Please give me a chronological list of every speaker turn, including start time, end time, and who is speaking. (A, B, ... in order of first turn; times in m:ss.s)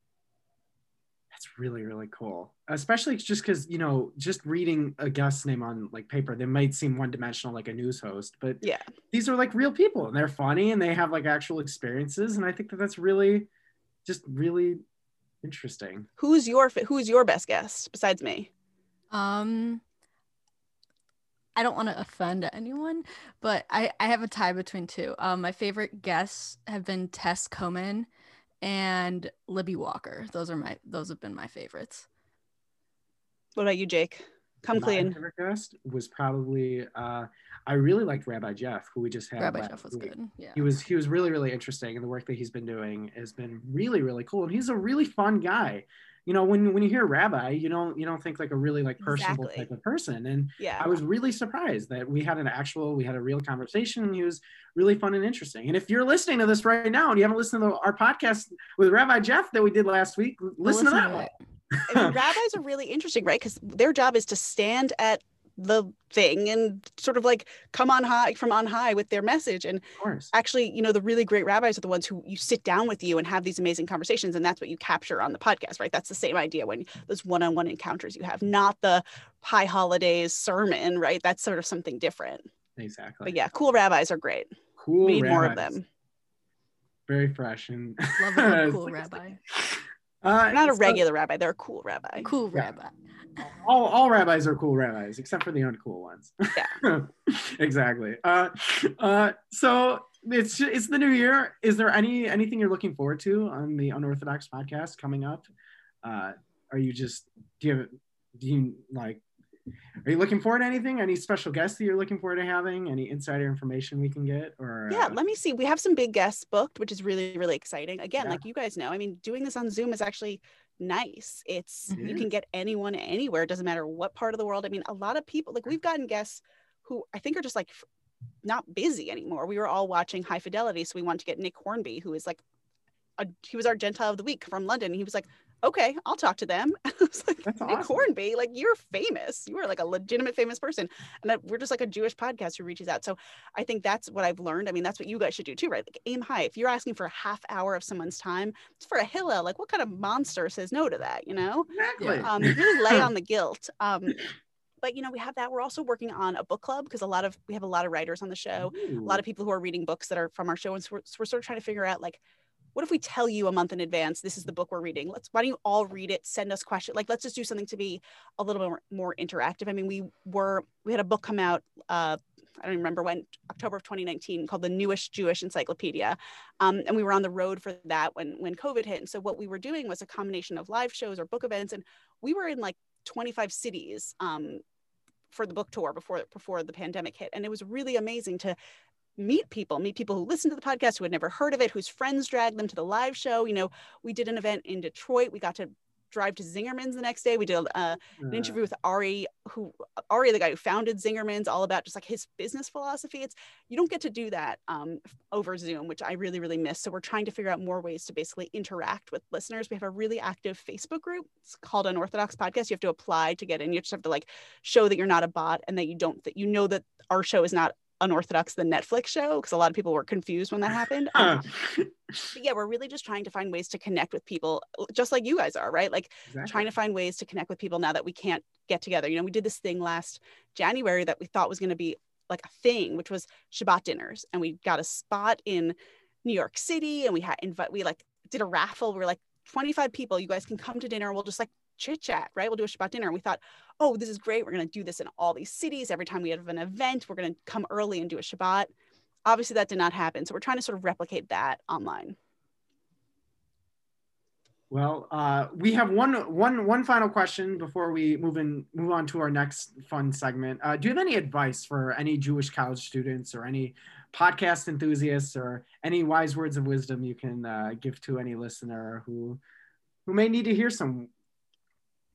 0:01.3-0:13.5 A
0:14.0-0:14.8 A
0:15.4-0:16.1 A
0:16.2-0:18.5 B
0:19.1-0:19.8 C
0:21.6-0:28.1 C
0:28.6-0:32.1 C
0:33.6-0:35.2 B
0:34.7-1:01.3 A
0:39.4-0:40.7 C
0:49.0-0:49.7 B
0:50.6-0:51.0 B
1:00.6-1:01.4 C
1:01.9-1:22.5 B
1:01.9-1:02.2 A
1:10.0-1:10.3 A
1:22.8-1:23.4 A
1:23.2-1:25.8 B
1:24.8-1:25.8 A
1:27.1-1:31.0 A
1:28.2-1:29.4 C
1:30.5-1:32.3 B
1:32.2-1:33.0 C
1:33.4-1:45.5 A
1:46.0-1:49.2 A
1:50.0-1:55.2 A
1:54.9-2:07.8 B
2:01.9-2:02.2 C
2:02.0-2:02.2 A
2:08.4-2:12.4 B
2:13.2-2:34.2 B
2:17.5-2:18.1 A
2:31.7-2:33.0 A
2:32.0-2:32.3 C
2:34.8-2:42.2 B
2:38.6-2:39.2 A
2:42.8-3:04.6 B
3:05.3-3:08.6 B
3:09.2-3:41.4 B
3:18.2-3:18.6 A
3:41.2-3:42.3 A
3:42.3-4:08.7 B
3:46.3-3:46.7 A
4:09.2-4:12.2 B
4:14.7-4:29.4 A
4:30.1-4:31.1 A